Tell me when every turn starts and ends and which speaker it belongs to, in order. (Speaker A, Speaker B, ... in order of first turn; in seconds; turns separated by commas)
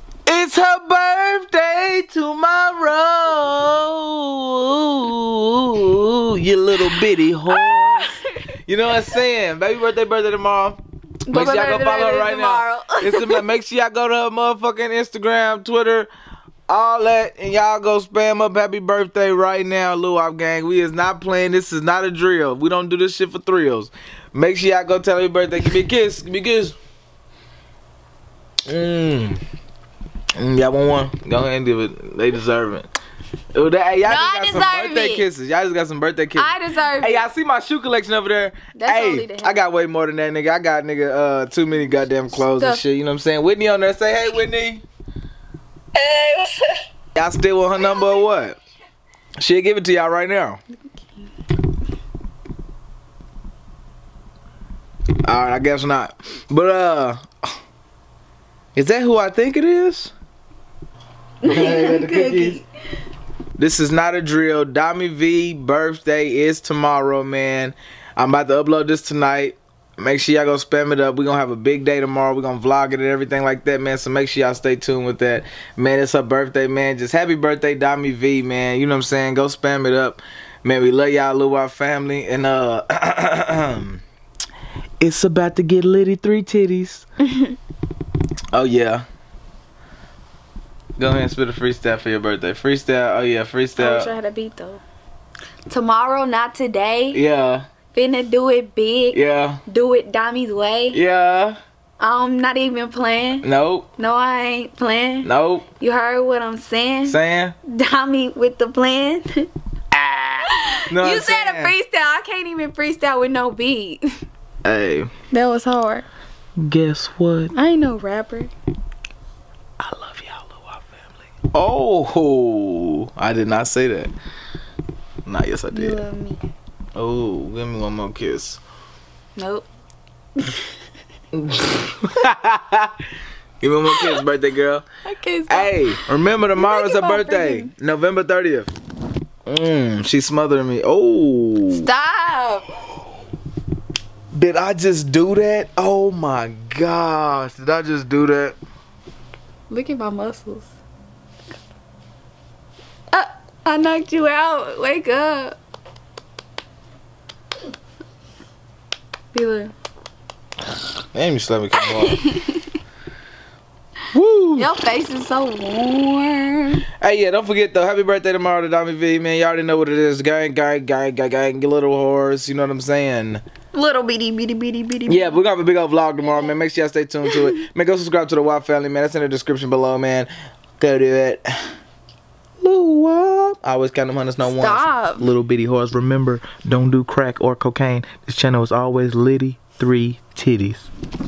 Speaker A: 0.3-8.1, Speaker B: 7.5-8.3, Speaker A: 8.7-16.1, Speaker B: 11.3-13.5, Speaker A: 16.7-26.8, Speaker A: 28.7-29.4, Speaker A: 30.4-32.9, Speaker A: 33.5-44.8, Speaker B: 34.0-35.3, Speaker B: 36.4-37.3, Speaker B: 38.8-39.6, Speaker B: 42.4-42.8, Speaker B: 46.0-46.7, Speaker A: 47.1-48.6, Speaker A: 49.4-50.6, Speaker B: 51.0-51.2, Speaker A: 55.3-57.2, Speaker A: 58.8-60.1, Speaker B: 61.4-62.7, Speaker A: 61.4-62.6, Speaker A: 63.6-84.0, Speaker A: 85.0-87.1, Speaker A: 88.5-89.0, Speaker A: 91.0-94.1, Speaker B: 93.8-94.8, Speaker B: 95.7-97.2, Speaker A: 97.1-97.7, Speaker B: 97.9-101.0, Speaker A: 99.1-99.6, Speaker A: 100.9-101.6, Speaker B: 102.0-103.5, Speaker A: 103.4-103.9, Speaker B: 104.0-109.5, Speaker A: 105.2-105.7, Speaker A: 107.1-107.5, Speaker A: 109.9-111.8, Speaker B: 110.5-114.0, Speaker A: 114.6-115.1, Speaker B: 115.3-116.1, Speaker A: 116.6-117.5, Speaker B: 117.5-118.5, Speaker A: 119.8-121.0, Speaker A: 121.5-124.1, Speaker A: 125.3-126.0, Speaker B: 125.7-126.4, Speaker A: 127.0-128.6, Speaker B: 129.4-129.7, Speaker A: 131.3-133.0, Speaker A: 133.6-134.9, Speaker B: 133.9-134.2, Speaker B: 135.1-135.9, Speaker A: 135.5-138.7, Speaker B: 136.6-137.7, Speaker A: 139.5-141.9, Speaker B: 141.7-142.7, Speaker A: 144.3-148.6, Speaker B: 149.7-150.7, Speaker B: 153.1-155.6, Speaker B: 159.3-159.7, Speaker A: 161.1-162.2, Speaker B: 161.8-162.7, Speaker A: 164.1-164.7, Speaker B: 164.6-166.8, Speaker A: 167.0-173.4, Speaker B: 173.7-175.4, Speaker A: 175.1-181.5, Speaker B: 176.2-176.5, Speaker A: 182.6-190.9, Speaker B: 184.4-185.3